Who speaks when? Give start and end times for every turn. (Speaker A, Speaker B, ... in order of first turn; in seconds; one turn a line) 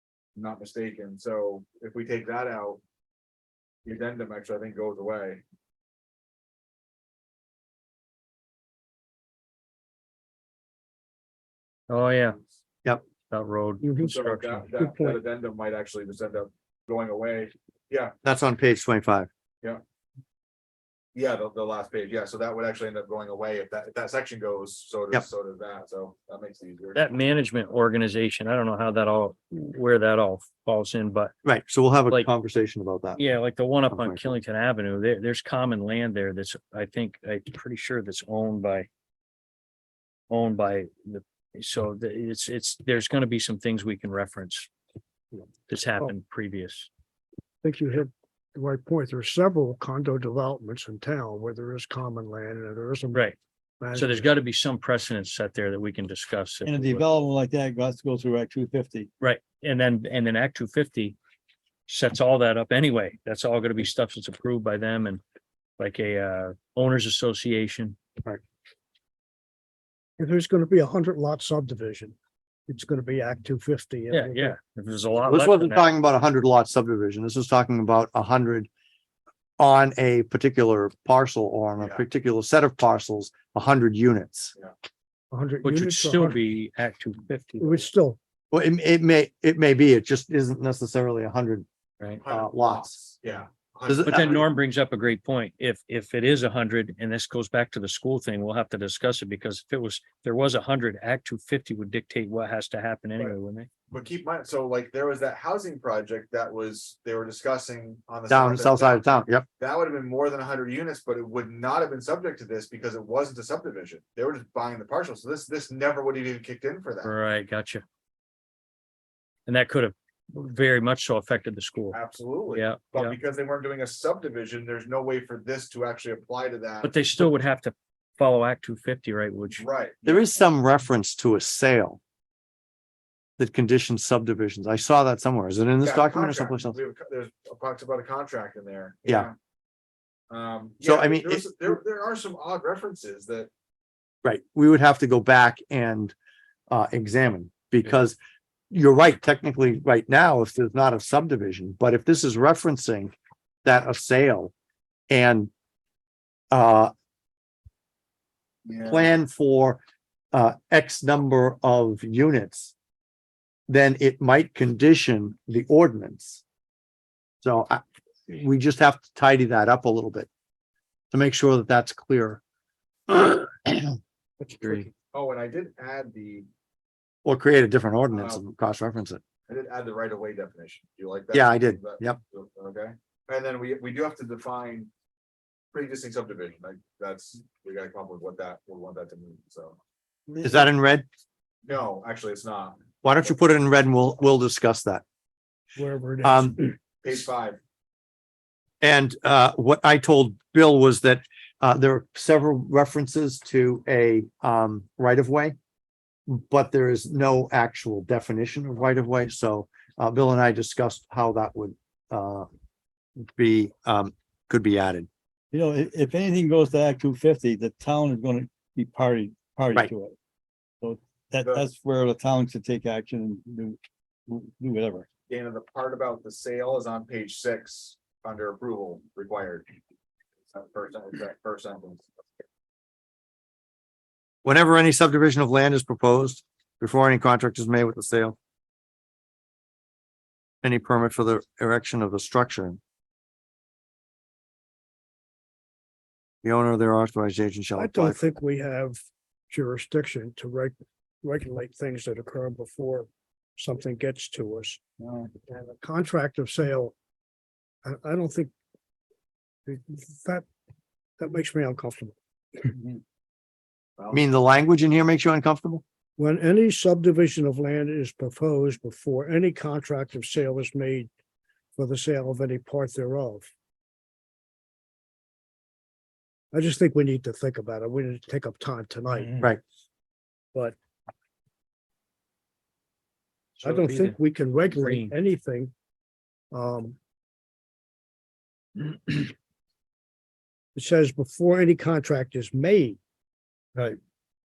Speaker A: 0.3-2.8
Speaker A: 3.8-5.4
Speaker B: 11.9-12.4
Speaker B: 13.3-14.6
Speaker C: 13.8-14.2
Speaker A: 14.0-18.1
Speaker C: 14.8-15.2
Speaker D: 18.2-19.3
Speaker A: 21.1-27.1
Speaker B: 26.9-31.3
Speaker D: 31.4-33.2
Speaker B: 33.1-38.9
Speaker D: 33.9-34.4
Speaker B: 40.3-44.7
Speaker B: 45.7-46.9
Speaker C: 47.6-53.3
Speaker C: 53.8-54.3
Speaker B: 53.9-57.0
Speaker E: 56.6-59.1
Speaker B: 59.2-61.1
Speaker B: 61.9-65.2
Speaker B: 65.8-68.0
Speaker C: 70.2-72.1
Speaker C: 72.7-74.6
Speaker B: 74.1-75.9
Speaker D: 75.2-78.7
Speaker D: 79.6-84.5
Speaker C: 85.3-86.4
Speaker B: 85.6-87.9
Speaker C: 87.6-88.2
Speaker D: 88.5-91.7
Speaker A: 92.2-94.4
Speaker D: 92.3-93.0
Speaker D: 93.9-94.3
Speaker B: 94.0-103.7
Speaker A: 103.9-117.1
Speaker D: 108.3-109.5
Speaker B: 117.0-117.8
Speaker B: 119.5-122.0
Speaker A: 121.9-127.2
Speaker B: 122.5-123.2
Speaker B: 126.8-129.7
Speaker A: 129.5-130.3
Speaker D: 130.1-132.0
Speaker D: 133.4-136.8
Speaker A: 135.8-139.3
Speaker A: 140.3-143.5
Speaker D: 140.8-141.4
Speaker D: 144.2-146.1
Speaker D: 146.7-148.2
Speaker D: 148.7-154.5
Speaker D: 155.1-155.5
Speaker D: 156.5-156.9
Speaker A: 158.6-159.1
Speaker D: 158.8-159.8
Speaker D: 160.3-162.7
Speaker D: 163.7-166.4
Speaker D: 167.4-170.3
Speaker D: 171.1-172.4
Speaker D: 173.1-173.9
Speaker C: 174.4-174.9
Speaker D: 174.6-174.9
Speaker A: 175.1-176.5
Speaker D: 177.2-179.2
Speaker A: 178.1-178.4
Speaker A: 179.5-184.9
Speaker D: 181.3-182.2
Speaker A: 185.7-189.8
Speaker C: 190.3-190.6
Speaker D: 190.4-191.1
Speaker A: 191.7-192.8
Speaker D: 193.0-195.0
Speaker C: 195.8-196.7
Speaker D: 196.2-196.6
Speaker A: 197.0-197.6
Speaker D: 198.8-205.6
Speaker D: 206.3-212.5
Speaker D: 213.2-215.1
Speaker E: 215.5-220.1
Speaker E: 220.8-225.1
Speaker A: 225.3-229.7
Speaker A: 230.5-232.1
Speaker D: 234.4-238.3
Speaker D: 240.6-242.8
Speaker D: 246.4-248.3
Speaker C: 247.8-249.0
Speaker C: 249.5-254.8
Speaker E: 255.0-255.3
Speaker C: 255.5-256.9
Speaker C: 257.8-258.5
Speaker C: 259.6-260.4
Speaker C: 261.2-262.7
Speaker D: 264.1-265.8
Speaker C: 266.2-271.1
Speaker C: 271.8-273.5
Speaker C: 276.5-279.4
Speaker B: 283.6-285.1
Speaker C: 283.6-285.7
Speaker C: 286.5-287.0
Speaker C: 288.8-289.2
Speaker C: 290.7-293.0